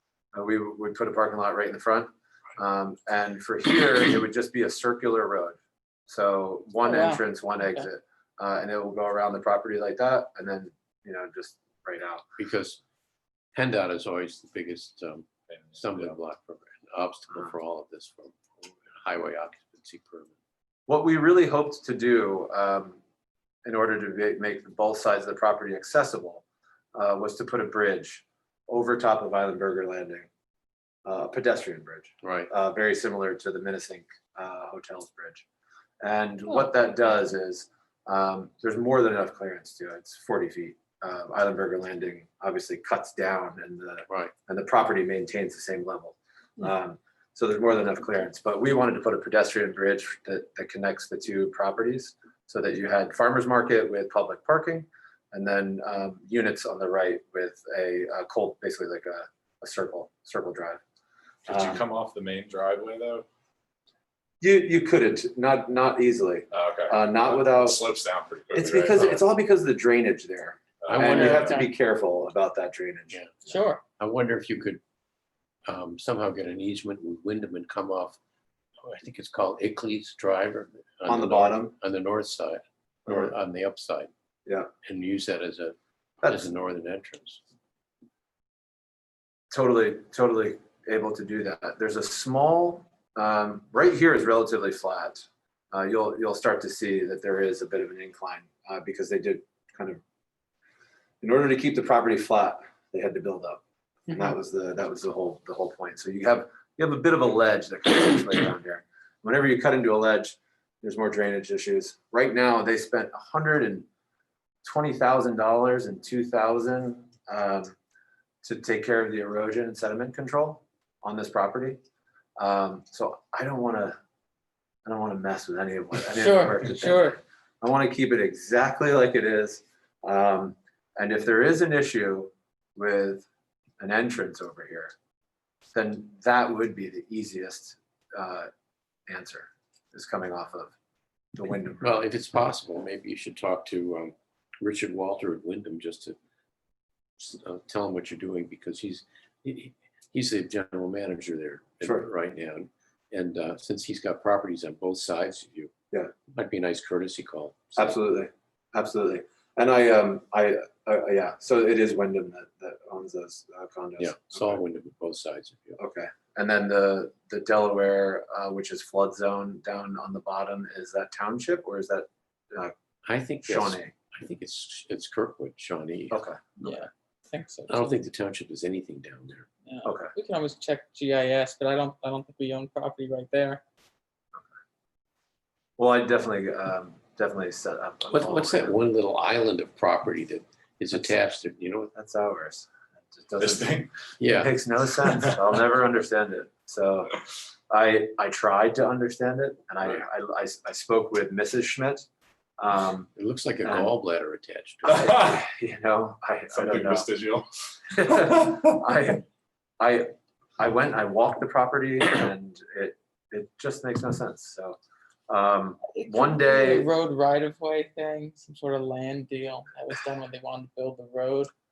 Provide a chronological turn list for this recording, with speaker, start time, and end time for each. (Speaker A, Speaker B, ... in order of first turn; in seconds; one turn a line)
Speaker A: 0.3-12.2
Speaker B: 6.8-7.8
Speaker C: 12.4-12.8
Speaker C: 13.5-20.3
Speaker D: 15.5-16.1
Speaker A: 20.9-23.0
Speaker A: 23.6-26.4
Speaker A: 26.9-30.3
Speaker A: 31.1-35.4
Speaker C: 32.2-32.5
Speaker A: 36.0-60.8
Speaker D: 61.5-63.2
Speaker A: 61.5-61.8
Speaker A: 64.4-67.8
Speaker D: 66.5-69.0
Speaker A: 68.5-73.6
Speaker C: 68.9-69.2
Speaker D: 70.8-71.6
Speaker C: 70.9-71.6
Speaker B: 70.9-71.7
Speaker C: 73.1-73.4
Speaker B: 73.5-73.8
Speaker C: 74.0-74.8
Speaker C: 75.7-78.2
Speaker C: 78.8-84.1
Speaker A: 81.1-81.7
Speaker A: 83.1-83.3
Speaker C: 84.8-87.4
Speaker A: 89.5-100.0
Speaker A: 101.2-113.8
Speaker A: 114.6-117.7
Speaker A: 118.4-121.8
Speaker A: 122.4-124.0
Speaker A: 124.8-133.3
Speaker B: 126.1-127.2
Speaker A: 133.8-134.9
Speaker A: 135.7-138.5
Speaker A: 139.1-140.7
Speaker A: 141.3-142.0
Speaker C: 141.8-146.2
Speaker C: 147.2-155.7
Speaker A: 151.8-152.1
Speaker C: 156.3-157.9
Speaker A: 157.8-164.6
Speaker C: 164.0-165.8
Speaker A: 165.8-172.7
Speaker C: 173.0-176.7
Speaker A: 173.4-173.9
Speaker A: 176.1-176.6
Speaker B: 176.6-177.9
Speaker C: 177.7-179.5
Speaker B: 179.7-183.6
Speaker A: 179.8-180.1
Speaker A: 185.8-188.8
Speaker C: 188.1-191.9
Speaker A: 191.9-202.1
Speaker D: 193.4-193.9
Speaker C: 194.2-194.5
Speaker A: 202.6-203.1
Speaker C: 203.1-205.4
Speaker A: 203.6-203.9
Speaker A: 204.9-207.1
Speaker D: 204.9-205.3
Speaker D: 206.5-207.5
Speaker A: 207.9-209.2
Speaker A: 209.8-214.8
Speaker A: 215.3-216.9
Speaker B: 215.9-221.5